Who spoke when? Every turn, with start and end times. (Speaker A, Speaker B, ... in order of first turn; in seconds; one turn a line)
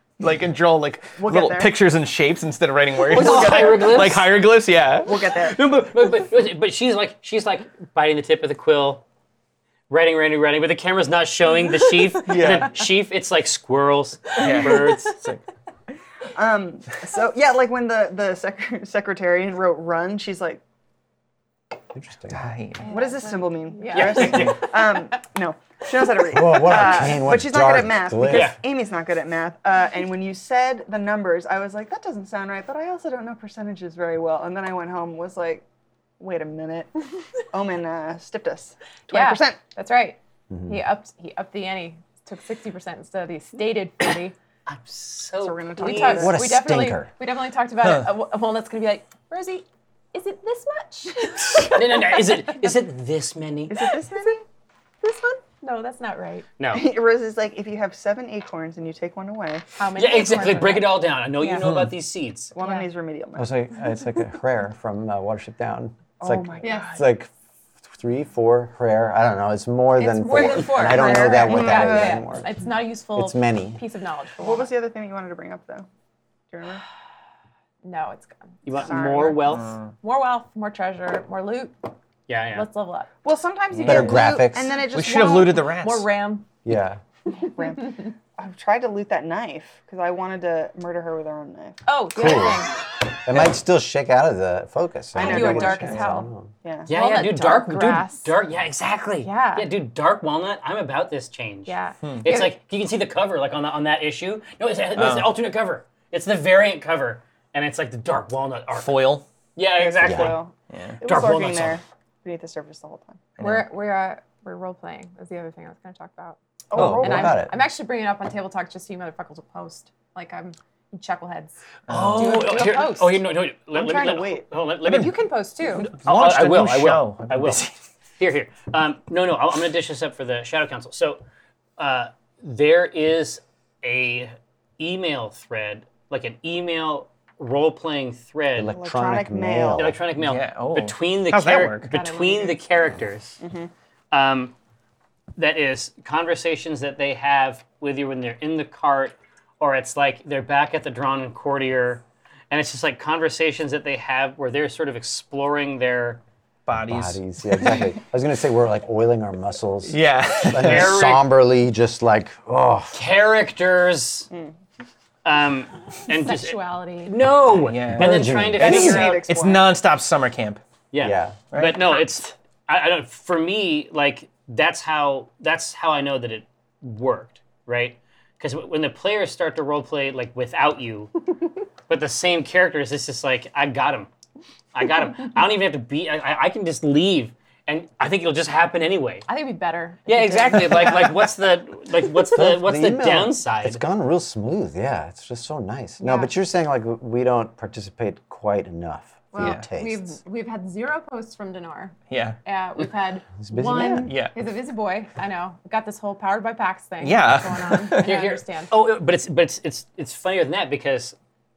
Speaker A: 0.2-5.1
Speaker B: 1.2-1.7
Speaker B: 3.1-4.2
Speaker C: 3.1-4.3
Speaker B: 5.0-5.6
Speaker C: 5.4-9.0
Speaker C: 9.9-15.1
Speaker D: 12.3-12.7
Speaker A: 14.4-15.4
Speaker E: 14.4-14.9
Speaker B: 16.3-20.6
Speaker D: 21.9-22.5
Speaker A: 22.3-22.9
Speaker E: 22.8-25.0
Speaker B: 22.9-35.6
Speaker C: 23.9-24.6
Speaker D: 26.3-28.5
Speaker C: 28.2-28.6
Speaker B: 36.2-39.6
Speaker E: 39.1-44.4
Speaker D: 40.5-40.8
Speaker C: 44.7-46.3
Speaker B: 45.4-46.4
Speaker E: 45.8-52.6
Speaker D: 46.1-47.1
Speaker A: 47.8-48.1
Speaker C: 51.7-53.8
Speaker B: 53.7-54.4
Speaker E: 55.0-56.5
Speaker C: 56.6-56.8
Speaker B: 56.7-59.7
Speaker E: 59.8-61.6
Speaker C: 59.9-62.5
Speaker A: 61.6-61.9
Speaker B: 62.5-63.5
Speaker E: 62.6-62.9
Speaker D: 63.4-67.3
Speaker B: 66.2-67.0
Speaker E: 66.6-67.0
Speaker D: 67.8-72.5
Speaker E: 70.0-74.7
Speaker B: 70.3-72.4
Speaker D: 73.1-73.8
Speaker B: 74.4-75.9
Speaker B: 76.5-76.8
Speaker E: 77.8-78.8
Speaker C: 78.6-79.8
Speaker B: 78.7-79.4
Speaker A: 79.5-79.9
Speaker E: 80.0-81.7
Speaker C: 82.3-82.7
Speaker E: 82.5-83.1
Speaker B: 83.2-85.7
Speaker A: 83.7-84.2
Speaker D: 83.8-84.7
Speaker A: 84.9-86.1
Speaker E: 85.3-86.5
Speaker D: 86.6-87.0
Speaker B: 87.4-91.8
Speaker E: 91.8-92.7
Speaker D: 92.2-92.7
Speaker D: 93.2-96.5
Speaker E: 95.1-96.3
Speaker B: 95.2-96.0
Speaker B: 96.6-96.9
Speaker C: 96.9-109.0
Speaker E: 96.9-98.3
Speaker E: 99.2-99.7
Speaker E: 101.7-102.5
Speaker A: 102.0-102.3
Speaker A: 105.0-105.3
Speaker A: 108.8-109.2
Speaker C: 109.5-110.4
Speaker B: 109.8-113.2
Speaker D: 110.0-110.4
Speaker A: 110.7-111.0
Speaker C: 111.0-111.8
Speaker A: 113.4-113.7
Speaker E: 113.4-121.6
Speaker B: 116.7-117.4
Speaker D: 116.7-117.5
Speaker A: 121.9-122.7
Speaker C: 121.9-125.1
Speaker E: 122.1-123.2
Speaker B: 123.7-124.5
Speaker A: 124.8-125.2
Speaker E: 124.8-125.9
Speaker C: 125.7-127.6
Speaker A: 125.7-127.7
Speaker C: 128.2-131.2
Speaker C: 131.8-138.8
Speaker D: 138.6-140.0
Speaker B: 138.7-139.9
Speaker C: 139.7-143.4
Speaker A: 140.2-141.9
Speaker E: 141.9-142.6
Speaker B: 143.4-143.7
Speaker C: 144.1-144.5
Speaker C: 145.3-156.2
Speaker A: 156.7-157.7
Speaker D: 156.9-163.0
Speaker A: 159.8-161.0
Speaker C: 160.5-161.3
Speaker C: 162.9-164.3
Speaker C: 165.2-169.2
Speaker E: 166.1-167.1
Speaker A: 167.6-170.6
Speaker D: 167.9-169.1
Speaker B: 168.6-169.7
Speaker C: 170.9-181.1
Speaker D: 171.0-171.4
Speaker A: 171.5-172.0
Speaker C: 181.9-184.1
Speaker C: 184.7-189.3
Speaker E: 189.3-191.1
Speaker C: 190.1-193.8
Speaker D: 192.3-200.2
Speaker E: 196.0-196.3
Speaker E: 199.3-208.7
Speaker A: 199.4-199.7
Speaker A: 202.1-202.4
Speaker D: 203.4-204.1
Speaker A: 204.0-204.3
Speaker A: 207.0-208.1
Speaker C: 208.0-211.1